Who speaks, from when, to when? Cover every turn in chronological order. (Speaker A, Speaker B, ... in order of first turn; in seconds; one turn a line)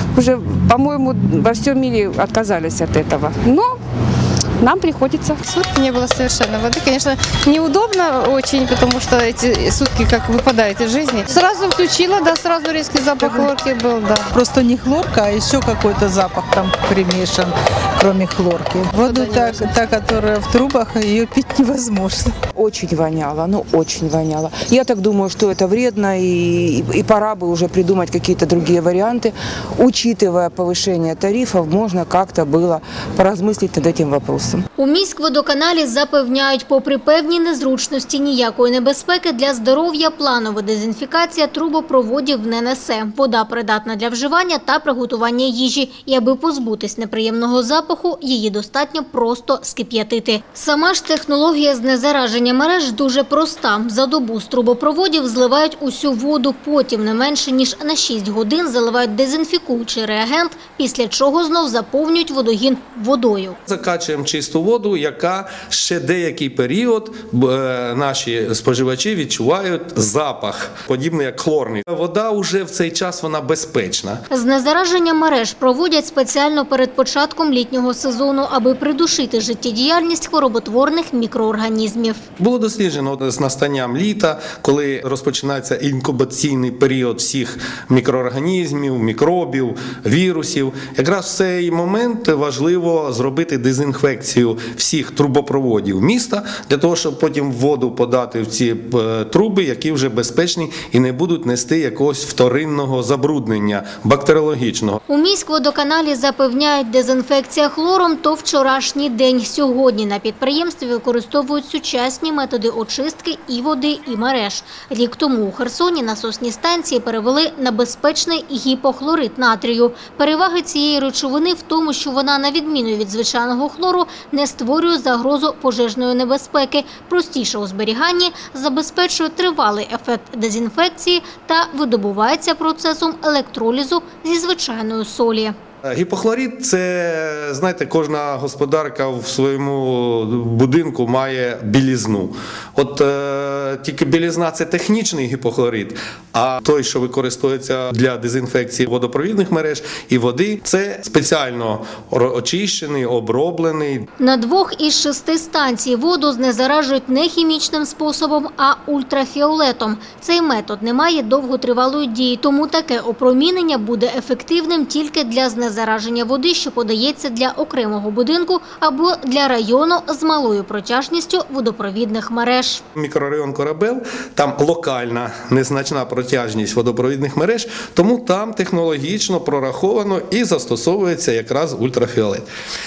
Speaker A: 0.1-3.7
Speaker A: 4.6-5.4
Speaker B: 5.4-14.3
Speaker C: 13.2-13.5
Speaker C: 14.3-22.3
Speaker B: 18.9-19.7
Speaker D: 22.6-34.6
Speaker E: 34.8-63.6
Speaker F: 63.7-74.2
Speaker E: 74.3-82.3
Speaker F: 82.4-105.0
Speaker E: 105.1-135.5
Speaker F: 135.9-154.1
Speaker E: 154.2-172.8
Speaker F: 172.9-182.5